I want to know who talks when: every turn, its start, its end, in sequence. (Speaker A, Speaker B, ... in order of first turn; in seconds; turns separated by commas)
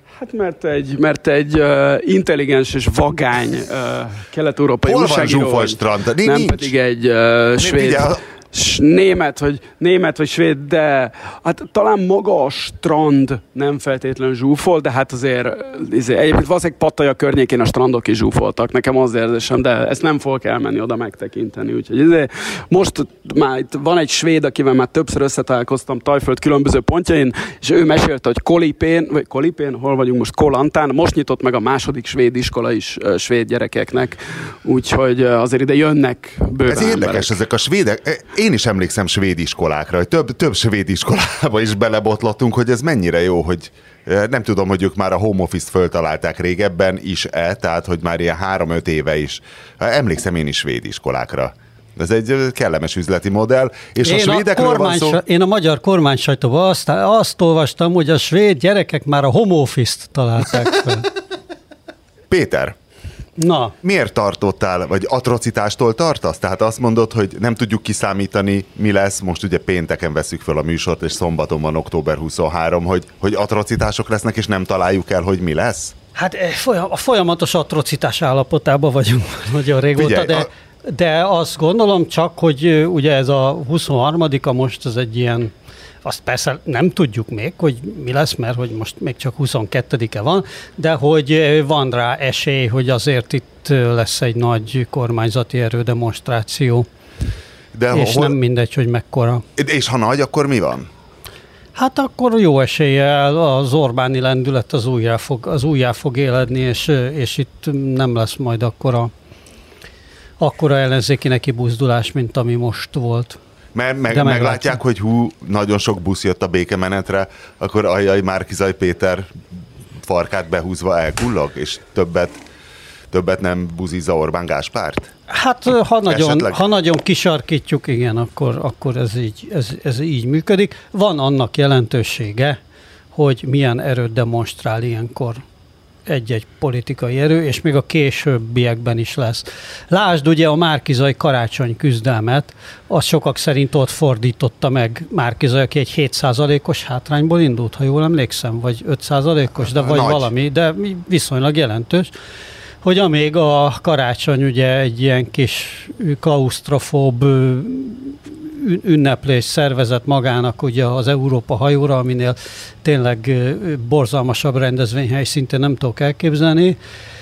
Speaker A: 0.2-37.4, Speaker B: 4.8-6.7, Speaker B: 7.6-8.2, Speaker B: 36.7-55.2, Speaker C: 54.0-61.1, Speaker B: 62.3-62.8, Speaker C: 63.4-63.8, Speaker B: 63.8-75.9, Speaker C: 76.2-96.9, Speaker B: 80.0-80.5, Speaker B: 97.7-98.4, Speaker C: 97.9-99.5, Speaker B: 99.6-100.9, Speaker C: 101.8-109.1, Speaker C: 110.4-113.4, Speaker B: 113.8-119.4, Speaker C: 114.1-114.8, Speaker B: 120.0-122.3, Speaker B: 123.1-125.1, Speaker C: 125.3-132.6, Speaker B: 126.1-126.6, Speaker C: 133.1-135.4, Speaker C: 136.1-152.1, Speaker B: 149.6-150.3, Speaker C: 152.8-166.8